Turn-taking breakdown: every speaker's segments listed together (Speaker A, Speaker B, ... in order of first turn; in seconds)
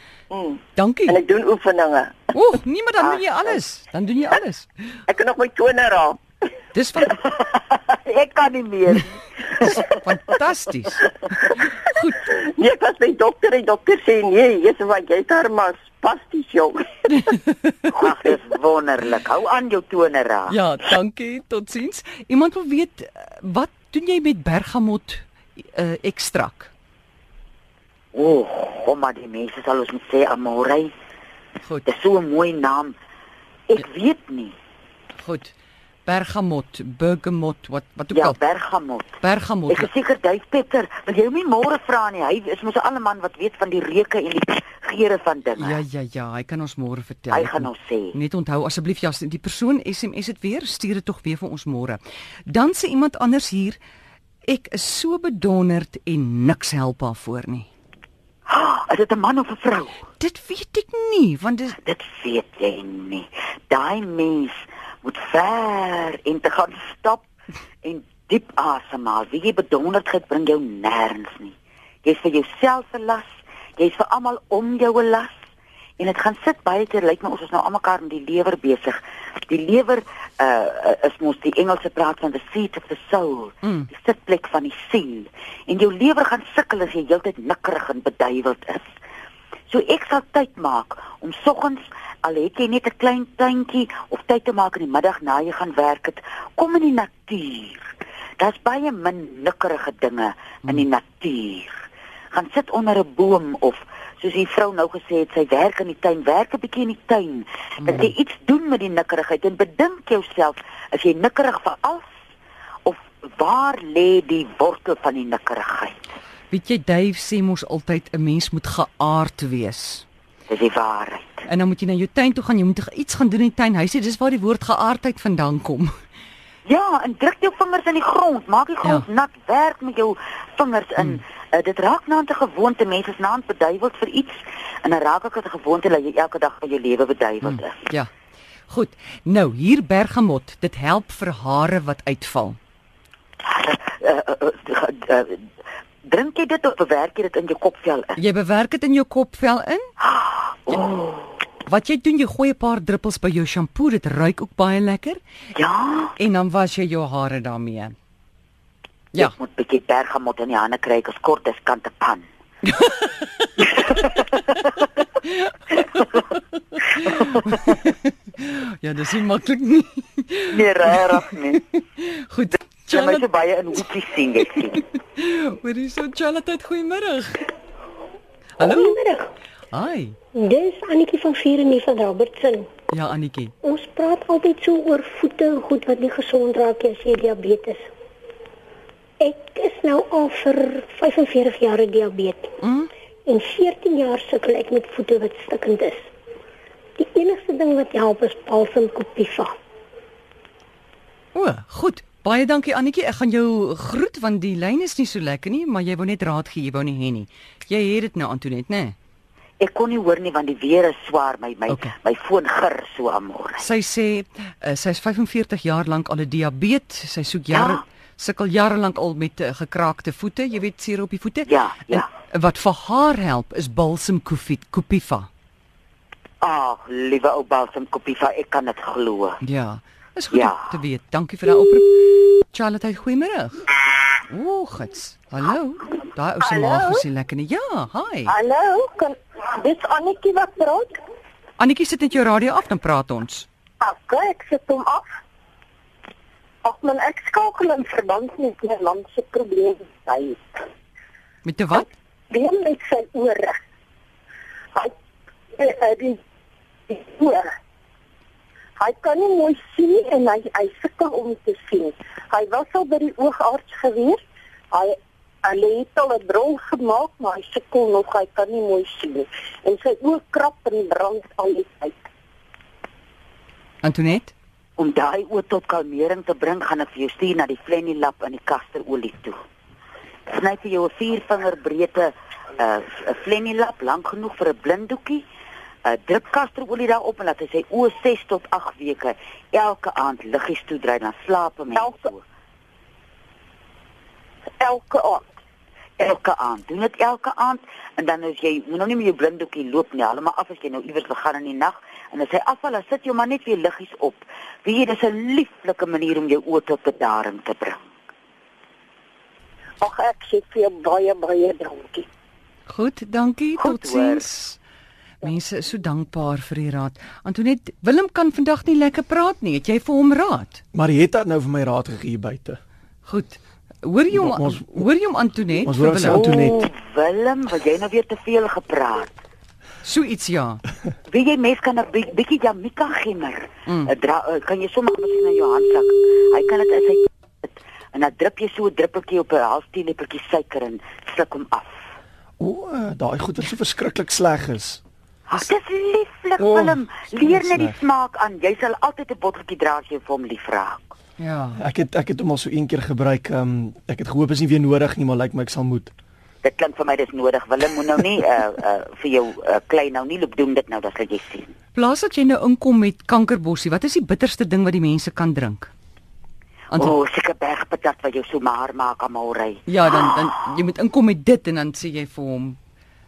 Speaker A: 0.3-2.4, 5.1-6.2, 12.2-16.9
Speaker B: 0.8-1.2, 2.3-4.7, 6.7-7.2, 9.6-12.3, 20.5-26.7, 35.2-35.5, 36.1-38.4, 39.2-39.9, 45.6-53.8, 54.5-57.7, 60.2-61.8, 83.6-83.9, 116.5-120.0, 121.5-126.0, 137.5-138.1, 138.7-142.6, 148.2-149.9, 151.7-155.2, 156.2-157.9, 162.7-163.9, 165.2-170.6, 171.7-173.2, 174.8-177.5, 178.6-179.0, 179.7-180.2, 182.9-183.6, 192.6-192.9, 201.3-209.0, 213.6-225.3, 229.4-233.6, 234.2-238.3, 241.6-243.5, 251.4-251.9, 273.8-274.3, 312.7-314.6, 315.2-320.6, 323.1-326.3, 329.8-330.6, 351.2-351.6, 361.8-365.7, 369.7-372.6
Speaker C: 7.2-9.9, 17.9-20.6, 28.1-30.9, 31.9-33.0, 33.7-34.5, 38.1-39.2, 39.7-45.8, 47.3-48.2, 58.5-60.1, 61.8-67.2, 67.8-71.5, 72.0-73.2, 73.8-75.3, 76.0-88.9, 89.7-97.9, 98.4-112.1, 112.9-116.0, 120.5-121.4, 126.7-137.8, 143.4-145.4, 146.1-148.2, 150.0-151.4, 155.6-156.1, 159.2-162.3, 170.5-171.6, 172.9-174.8, 209.6-213.6, 217.5-217.8, 221.5-222.1, 226.4-229.4, 230.3-230.6, 274.8-279.4, 280.3-285.2, 285.9-292.2, 296.0-307.9, 313.6-314.3, 326.0-329.1, 331.1-341.9, 345.3-350.9, 356.4-361.5, 366.8-369.6
Speaker D: 178.6-179.3, 180.3-182.7, 183.6-187.9, 189.2-192.6, 193.3-196.1, 197.0-199.6
Speaker E: 236.4-237.0, 238.3-241.0, 243.8-245.1, 246.6-250.6, 252.3-253.6, 255.5-256.2, 256.9-257.5, 258.8-272.1, 294.6-295.3, 309.8-312.1
Speaker F: 320.7-322.6, 324.1-324.9, 325.6-326.7, 342.4-344.8, 346.4-347.8, 351.6-355.9